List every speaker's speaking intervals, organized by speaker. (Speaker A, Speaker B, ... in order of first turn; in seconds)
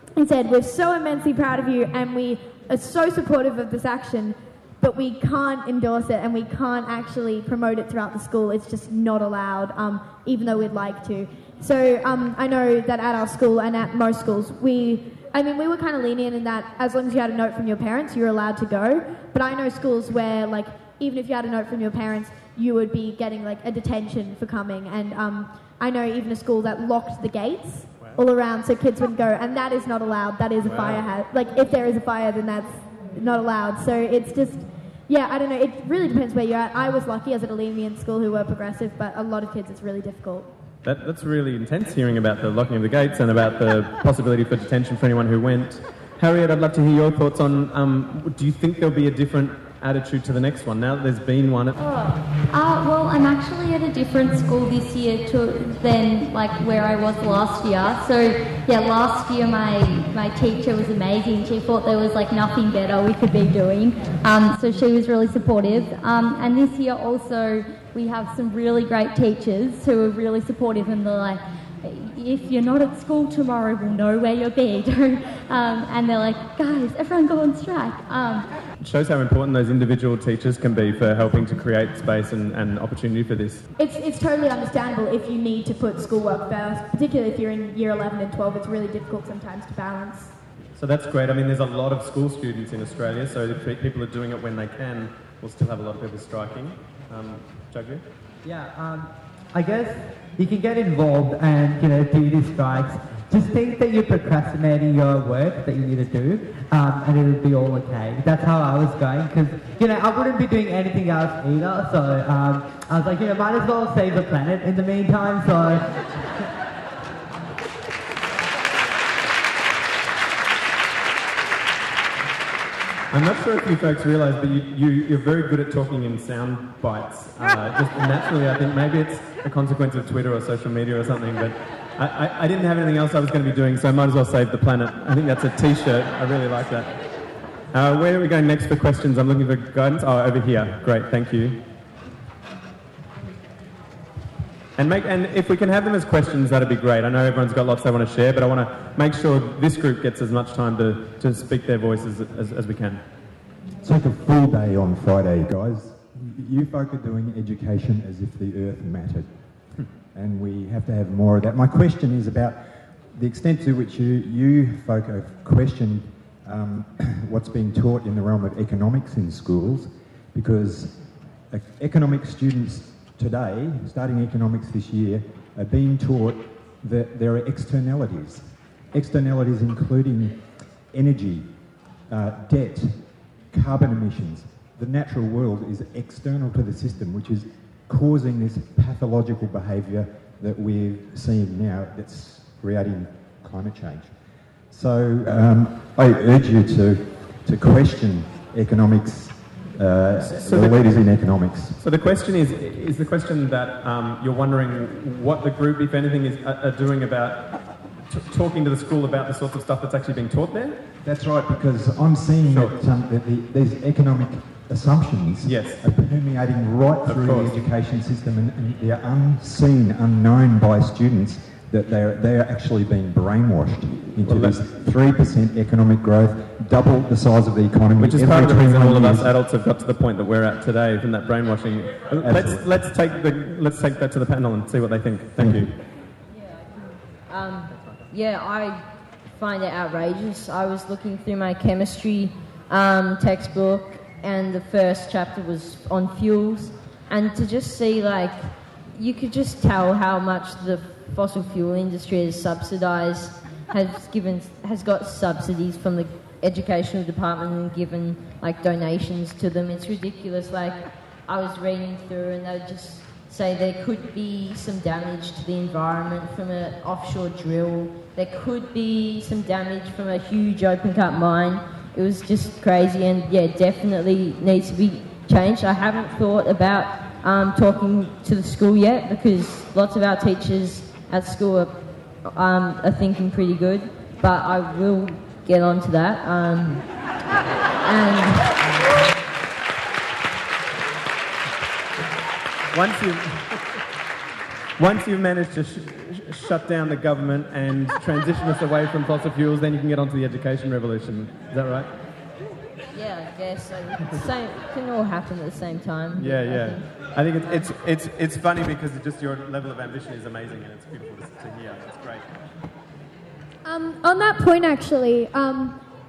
Speaker A: 0.1-40.5, 83.8-90.3, 313.6-315.8
Speaker B: 30.6-31.1, 40.8-51.8, 78.8-83.6, 90.7-98.0, 123.1-137.0, 137.7-141.6, 144.8-153.1, 200.1-210.9, 212.4-212.8, 215.4-215.9, 217.0-217.7, 224.2-224.7, 227.9-235.7, 237.7-238.0, 292.7-293.6, 294.8-302.0, 306.1-312.2
Speaker C: 51.8-78.5
Speaker D: 98.4-116.0
Speaker E: 153.8-201.8, 211.0-229.3, 232.1-232.7, 235.4-235.7
Speaker F: 236.2-287.1, 287.8-288.6, 302.9-307.7